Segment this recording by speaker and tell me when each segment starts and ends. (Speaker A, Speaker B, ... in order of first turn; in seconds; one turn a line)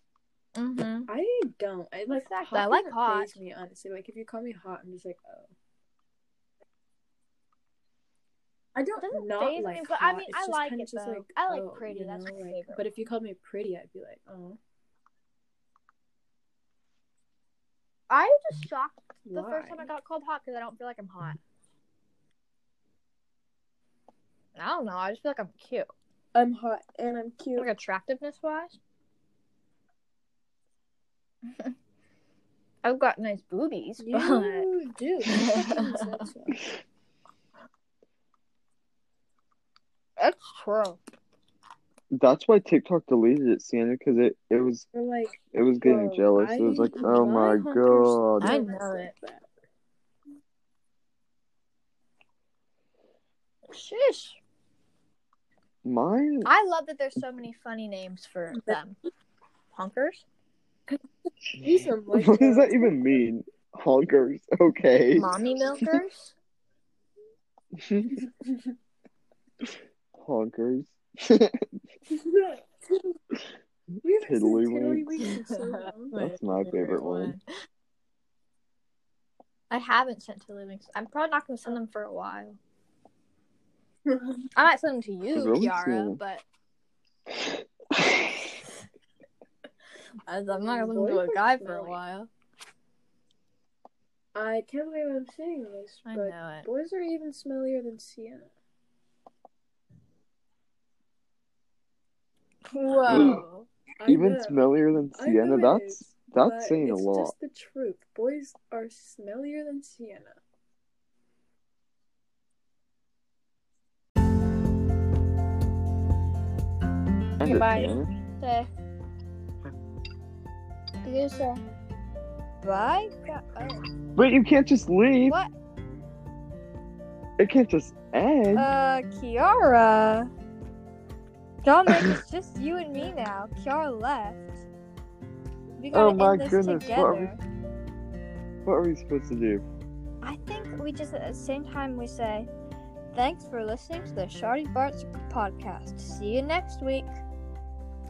Speaker A: 0.6-1.1
Speaker B: 1.1-5.5
Speaker A: 2.1-3.4
Speaker B: 8.8-14.6
Speaker A: 9.0-12.8
Speaker A: 18.1-21.4
Speaker B: 19.3-19.9
Speaker A: 24.6-25.9
Speaker B: 26.3-27.7
Speaker A: 27.6-28.8
Speaker A: 32.8-34.7
Speaker B: 34.0-36.6
Speaker A: 35.3-36.2
Speaker A: 40.2-41.0
Speaker C: 42.1-44.9
Speaker B: 44.9-49.5
Speaker C: 45.5-48.6
Speaker A: 48.4-49.1
Speaker A: 53.7-54.4
Speaker C: 55.9-56.5
Speaker A: 56.5-59.0
Speaker A: 59.7-60.2
Speaker B: 61.5-63.0
Speaker C: 62.1-65.4
Speaker A: 65.2-66.3
Speaker C: 67.7-68.3
Speaker C: 70.2-71.7
Speaker B: 72.1-73.2
Speaker B: 74.0-76.2
Speaker C: 74.2-75.3
Speaker A: 75.6-77.4
Speaker C: 76.2-77.4
Speaker A: 79.7-82.6
Speaker B: 84.1-84.5
Speaker A: 84.6-86.4
Speaker C: 85.3-86.2
Speaker C: 87.3-88.3
Speaker A: 90.3-92.3
Speaker B: 90.5-92.0
Speaker B: 94.3-98.5
Speaker A: 96.1-96.7
Speaker A: 102.7-103.7
Speaker B: 103.0-103.4
Speaker C: 103.1-103.4
Speaker B: 104.0-104.6
Speaker C: 104.1-107.3
Speaker B: 105.2-110.4
Speaker C: 117.4-118.1
Speaker A: 117.4-118.7
Speaker A: 121.0-121.6
Speaker A: 122.6-123.8
Speaker C: 124.2-125.4
Speaker A: 125.3-125.5
Speaker C: 127.4-128.7
Speaker A: 128.6-130.3
Speaker A: 131.6-134.7
Speaker C: 131.9-132.2
Speaker A: 135.8-137.4
Speaker C: 135.9-137.3
Speaker C: 138.7-139.7
Speaker A: 140.2-142.5
Speaker A: 143.1-147.2